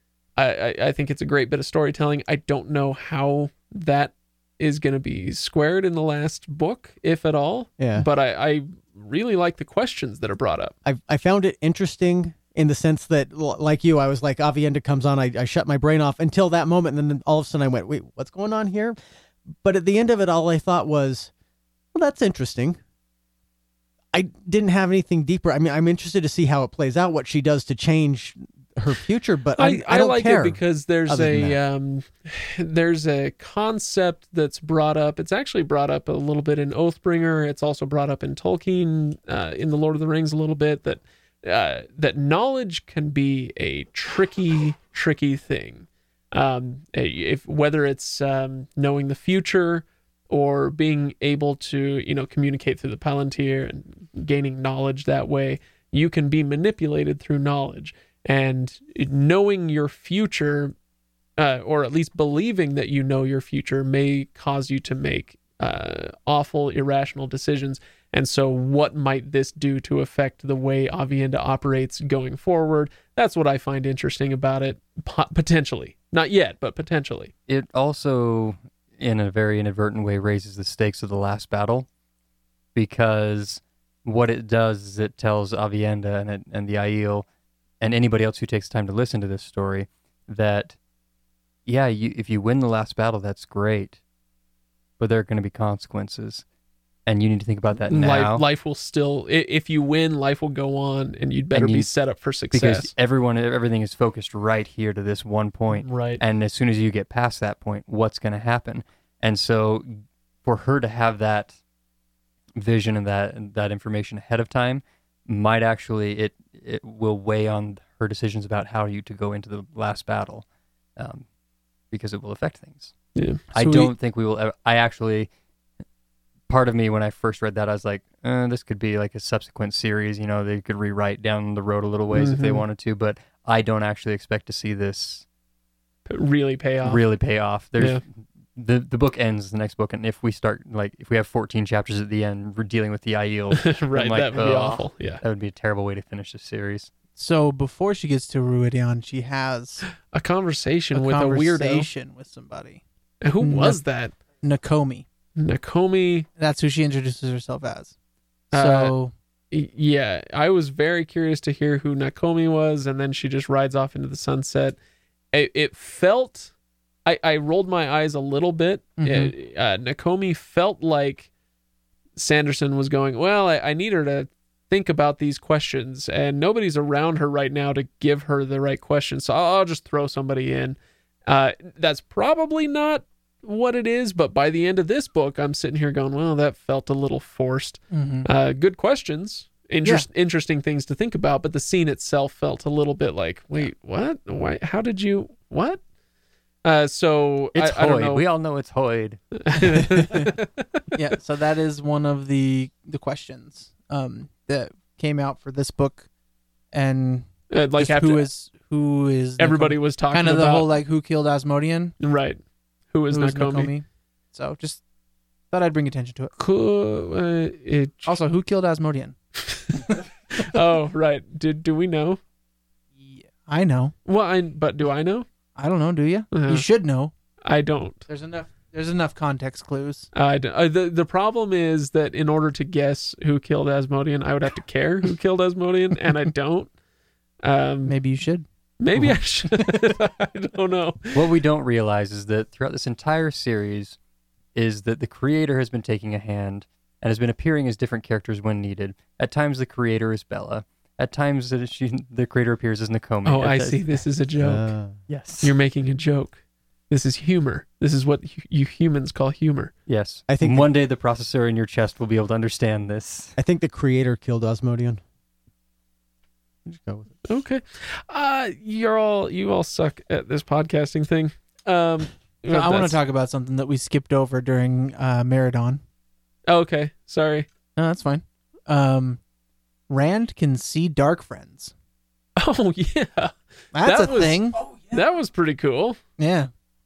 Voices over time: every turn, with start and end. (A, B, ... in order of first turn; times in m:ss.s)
0:00.4-0:10.7 A
0:07.8-0:08.1 B
0:10.8-0:19.0 B
0:19.6-0:21.3 B
0:21.9-0:22.8 B
0:24.1-0:31.6 B
0:29.6-1:00.8 A
1:01.4-1:17.3 A
1:17.5-1:21.9 C
1:22.8-1:27.3 C
1:27.8-1:30.8 C
1:31.7-1:34.0 C
1:35.0-1:36.4 C
1:37.1-1:38.4 C
1:37.9-1:42.9 A
1:41.5-1:41.9 C
1:42.5-1:49.9 C
1:45.8-1:46.2 A
1:50.4-1:51.6 C
1:52.6-2:00.4 C
2:01.0-2:01.2 C
2:01.9-2:02.9 C
2:03.2-2:03.4 A
2:03.5-2:05.3 C
2:03.6-2:03.9 D
2:06.5-2:15.2 C
2:12.1-2:12.6 A
2:16.1-2:17.0 A
2:16.8-2:26.9 C
2:23.5-2:25.2 A
2:27.2-2:29.8 D
2:30.0-2:31.9 A
2:30.9-2:32.8 D
2:33.2-2:34.1 A
2:33.4-2:33.8 D
2:34.4-2:35.0 D
2:35.4-2:36.3 A
2:36.4-2:37.9 D
2:38.5-2:39.1 D
2:38.5-2:38.9 A
2:39.5-2:44.8 A
2:45.3-2:46.5 A
2:47.0-2:51.3 A
2:49.0-2:49.3 D
2:52.2-3:15.8 A
3:07.9-3:08.3 D
3:16.6-3:18.3 A
3:17.6-3:19.2 C
3:19.4-3:20.8 A
3:21.0-3:26.1 D
3:26.7-3:32.0 D
3:27.5-3:28.3 A
3:29.4-3:30.7 A
3:32.0-3:32.4 A
3:32.9-3:33.7 A
3:33.1-3:34.8 D
3:35.5-3:36.3 D
3:36.4-3:38.2 A
3:38.0-3:39.2 D
3:39.5-3:42.2 A
3:43.0-3:43.9 D
3:44.0-3:45.3 A
3:45.6-3:47.1 D
3:46.3-3:46.7 A
3:47.4-3:48.0 A
3:48.1-3:50.1 D
3:50.1-3:56.7 A
3:57.4-3:58.0 A
3:57.9-3:58.4 D
3:58.8-4:01.2 A
4:01.1-4:04.0 C
4:04.6-4:14.0 C
4:13.2-4:14.7 A
4:14.4-4:15.0 B
4:15.1-4:15.5 C
4:15.4-4:19.7 A
4:19.9-4:23.4 C
4:20.3-4:20.7 B
4:23.4-4:25.0 B
4:26.7-4:27.1 B
4:27.3-4:33.0 A
4:32.5-4:35.8 D
4:36.5-4:37.5 A
4:37.8-4:39.2 D
4:39.9-4:41.7 D
4:42.4-4:46.0 A
4:43.7-4:44.6 D
4:46.2-4:46.5 D